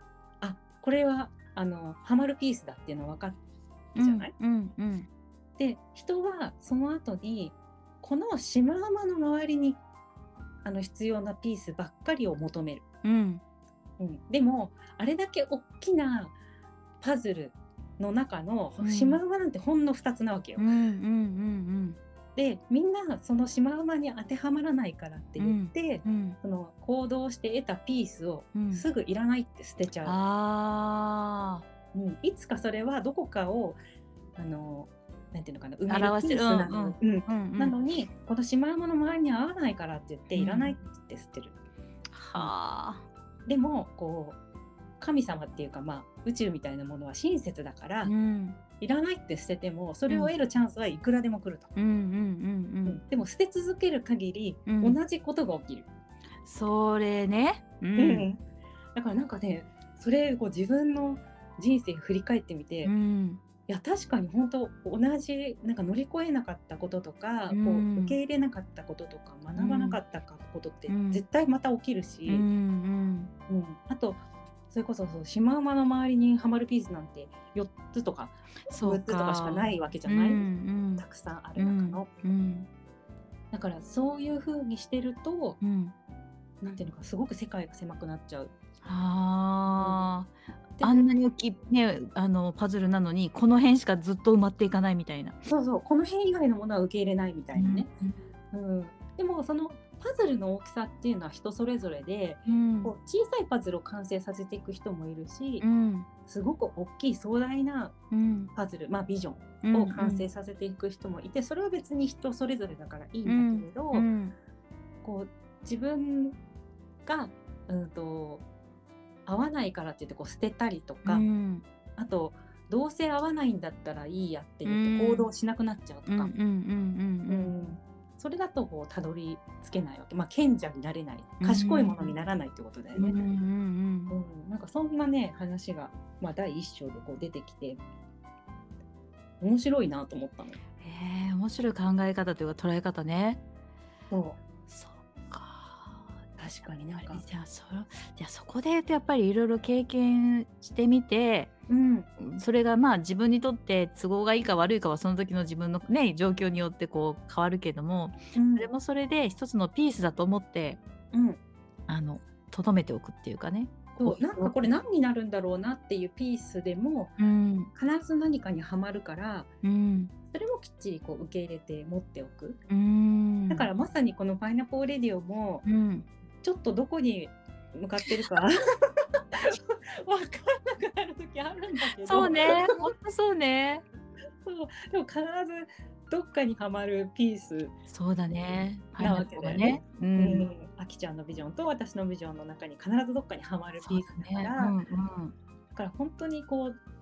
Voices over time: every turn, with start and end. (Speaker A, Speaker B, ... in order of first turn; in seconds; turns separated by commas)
Speaker A: 0.4-3.4, Speaker A: 4.0-4.3, Speaker B: 4.0-5.1, Speaker A: 5.6-9.8, Speaker A: 10.6-12.8, Speaker B: 13.0-13.4, Speaker A: 14.0-16.4, Speaker A: 17.0-20.7, Speaker B: 18.8-19.2, Speaker B: 20.6-22.0, Speaker A: 22.4-30.2, Speaker B: 25.4-26.4, Speaker B: 28.6-28.9, Speaker B: 30.0-31.6, Speaker A: 31.9-33.8, Speaker A: 34.4-41.6, Speaker B: 35.9-37.8, Speaker B: 40.3-40.8, Speaker B: 42.1-43.1, Speaker A: 43.5-44.4, Speaker A: 45.0-48.1, Speaker B: 48.0-48.6, Speaker A: 48.8-51.7, Speaker B: 50.1-50.4, Speaker B: 51.8-53.0, Speaker A: 52.9-55.9, Speaker B: 54.7-55.0, Speaker B: 56.4-58.3, Speaker A: 58.0-58.4, Speaker A: 59.0-62.9, Speaker B: 62.8-63.4, Speaker A: 63.7-72.5, Speaker B: 67.5-68.2, Speaker B: 69.6-70.0, Speaker B: 70.9-71.2, Speaker B: 72.3-73.3, Speaker A: 73.5-82.1, Speaker B: 78.7-81.0, Speaker B: 81.6-82.7, Speaker A: 83.5-85.6, Speaker B: 85.6-86.0, Speaker A: 86.6-88.5, Speaker B: 88.8-95.4, Speaker A: 89.7-90.1, Speaker A: 90.8-91.0, Speaker A: 95.5-97.9, Speaker B: 97.5-98.2, Speaker A: 98.5-105.7, Speaker B: 102.5-102.9, Speaker B: 105.6-106.1, Speaker A: 106.3-108.0, Speaker B: 108.1-108.5, Speaker A: 108.5-114.1, Speaker B: 109.6-110.3, Speaker B: 113.2-114.3, Speaker A: 115.0-116.4, Speaker A: 117.1-118.5, Speaker A: 119.3-121.3, Speaker B: 121.0-121.6, Speaker A: 122.0-126.3, Speaker B: 124.6-125.3, Speaker B: 126.1-127.5, Speaker A: 127.3-133.2, Speaker B: 131.4-132.1, Speaker B: 133.0-134.2, Speaker A: 134.1-137.8, Speaker A: 139.4-140.6, Speaker B: 140.8-143.4, Speaker A: 144.1-144.4, Speaker B: 144.7-146.1, Speaker A: 146.4-147.2, Speaker B: 147.1-151.5, Speaker A: 151.7-152.1, Speaker B: 152.2-160.8, Speaker A: 158.3-158.7, Speaker A: 161.1-161.4, Speaker B: 161.9-164.8, Speaker A: 164.0-167.2, Speaker B: 167.2-167.7, Speaker A: 167.8-169.5, Speaker B: 169.6-170.1, Speaker A: 170.3-172.6, Speaker B: 172.7-173.7, Speaker A: 173.5-175.7, Speaker B: 175.7-176.1, Speaker A: 176.4-182.8, Speaker B: 182.0-183.8, Speaker A: 184.4-187.7, Speaker B: 187.9-190.5, Speaker A: 189.0-194.8, Speaker B: 193.8-195.3, Speaker A: 195.8-196.8